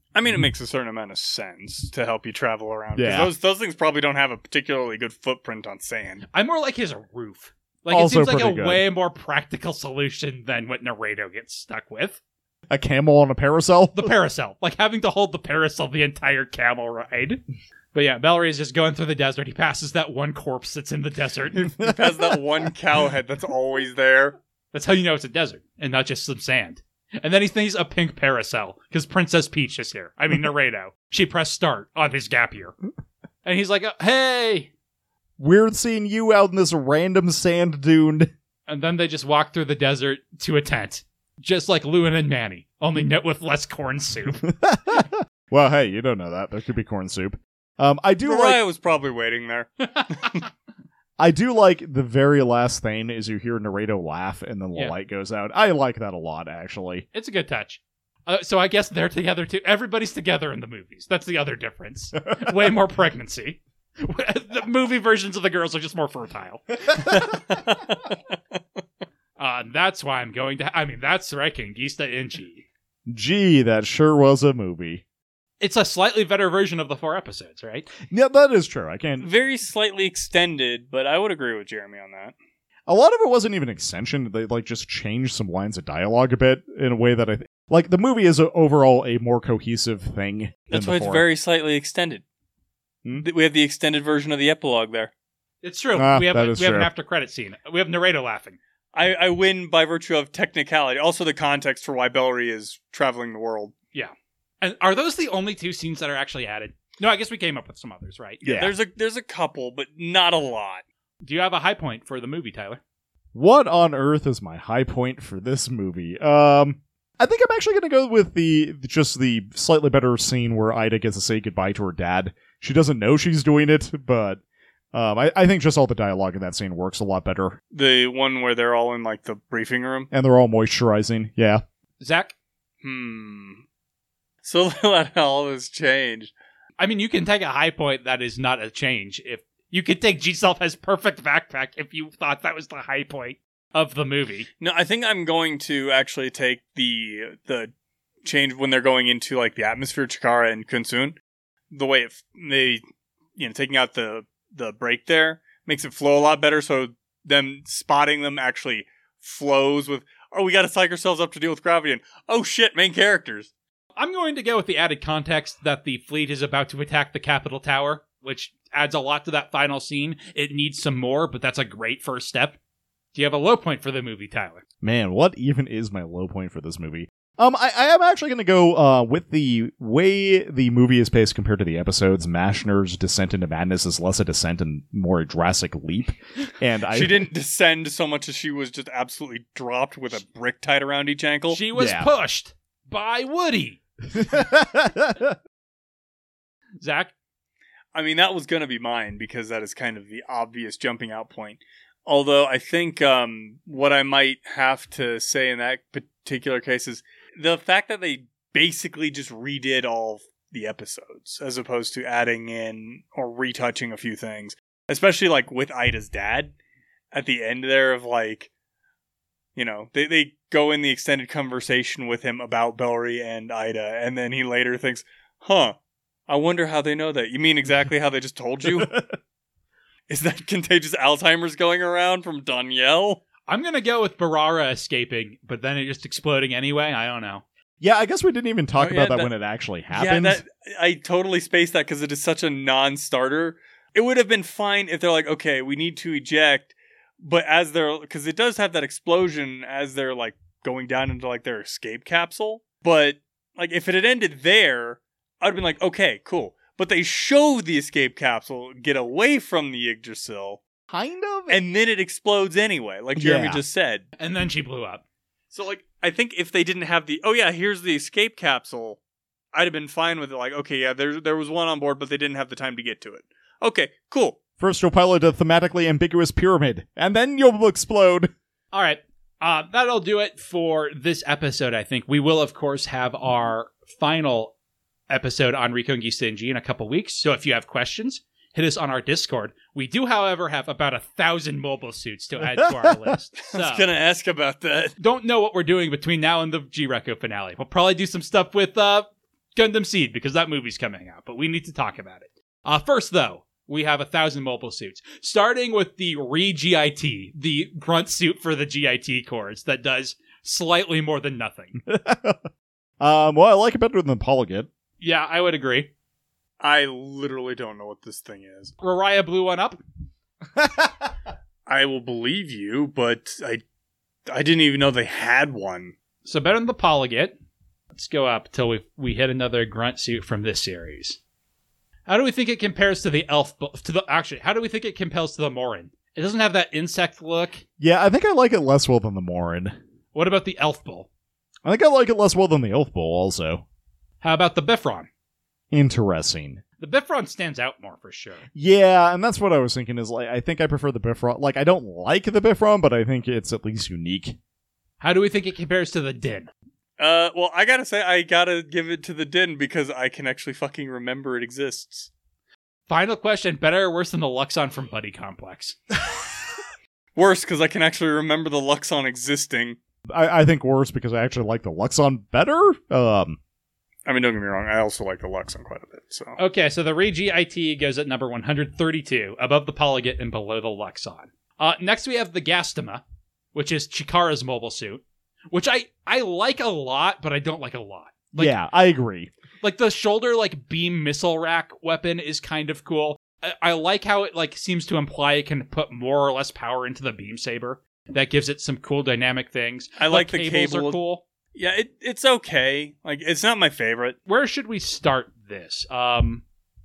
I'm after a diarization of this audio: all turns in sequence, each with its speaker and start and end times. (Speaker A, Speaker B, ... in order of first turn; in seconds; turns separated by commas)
Speaker A: 0.1-6.2, Speaker B: 2.9-3.3, Speaker C: 6.3-12.2, Speaker B: 7.9-8.8, Speaker B: 12.7-14.1, Speaker C: 13.9-17.4, Speaker C: 17.9-21.6, Speaker A: 21.5-24.4, Speaker B: 21.8-22.4, Speaker C: 24.7-32.7, Speaker C: 33.4-34.7, Speaker B: 35.4-38.3, Speaker C: 38.7-44.4, Speaker B: 44.4-48.6, Speaker A: 48.2-50.4, Speaker C: 49.8-50.5, Speaker B: 51.2-57.0, Speaker C: 57.1-67.2, Speaker A: 67.0-68.0, Speaker C: 69.4-72.6, Speaker B: 73.1-75.0, Speaker C: 75.6-77.9, Speaker B: 78.0-79.3, Speaker A: 79.2-82.3, Speaker B: 82.9-91.2, Speaker A: 90.7-92.2, Speaker A: 93.2-95.1, Speaker C: 95.6-98.6, Speaker B: 96.0-96.9, Speaker A: 98.9-103.7, Speaker C: 103.9-108.5, Speaker B: 108.4-108.7, Speaker A: 108.5-110.8, Speaker C: 111.2-112.8, Speaker B: 113.3-124.4, Speaker B: 124.9-127.6, Speaker A: 127.7-130.1, Speaker B: 130.1-131.6, Speaker C: 132.0-132.3, Speaker A: 132.8-133.6, Speaker A: 134.4-136.3, Speaker C: 136.8-144.5, Speaker A: 144.6-147.7, Speaker A: 148.2-151.2, Speaker A: 151.7-152.8, Speaker A: 153.4-163.5, Speaker C: 163.9-172.6, Speaker C: 173.1-174.6, Speaker B: 174.8-187.3, Speaker A: 186.9-191.6, Speaker C: 191.5-193.8, Speaker B: 191.7-192.1, Speaker B: 194.1-195.4, Speaker C: 196.8-197.1, Speaker A: 197.9-216.5, Speaker A: 217.1-218.5, Speaker A: 219.6-225.7, Speaker A: 226.3-229.0, Speaker B: 228.6-229.1, Speaker A: 230.1-233.2, Speaker C: 233.5-237.4, Speaker B: 237.8-240.4, Speaker A: 238.8-239.3, Speaker A: 239.9-260.6, Speaker B: 260.9-261.6, Speaker A: 261.5-264.1, Speaker B: 263.1-263.6, Speaker C: 264.2-265.0, Speaker A: 265.5-269.0, Speaker A: 269.5-274.4, Speaker B: 274.6-278.3, Speaker C: 278.7-284.5, Speaker C: 285.1-293.9, Speaker B: 292.5-293.1, Speaker A: 293.4-294.9, Speaker C: 295.0-311.8, Speaker B: 311.9-312.5, Speaker B: 313.0-314.7, Speaker C: 315.0-315.9, Speaker A: 316.6-318.7, Speaker C: 318.8-319.8, Speaker B: 320.5-321.1, Speaker A: 321.7-323.6, Speaker A: 324.3-325.9, Speaker C: 326.2-327.4, Speaker C: 327.9-331.2, Speaker C: 332.1-337.6, Speaker B: 337.8-339.8, Speaker C: 340.1-341.1, Speaker B: 341.6-343.6, Speaker C: 344.2-345.1, Speaker B: 345.7-346.6, Speaker C: 346.8-348.4, Speaker B: 348.5-354.4, Speaker C: 355.0-356.5, Speaker A: 357.0-362.1, Speaker C: 362.9-365.8, Speaker A: 367.1-369.8, Speaker B: 370.1-373.4, Speaker A: 374.1-376.4, Speaker C: 376.4-383.0, Speaker C: 383.5-388.6, Speaker B: 388.4-389.3, Speaker C: 389.6-401.2, Speaker A: 400.0-401.0, Speaker A: 401.5-404.2, Speaker C: 404.2-406.4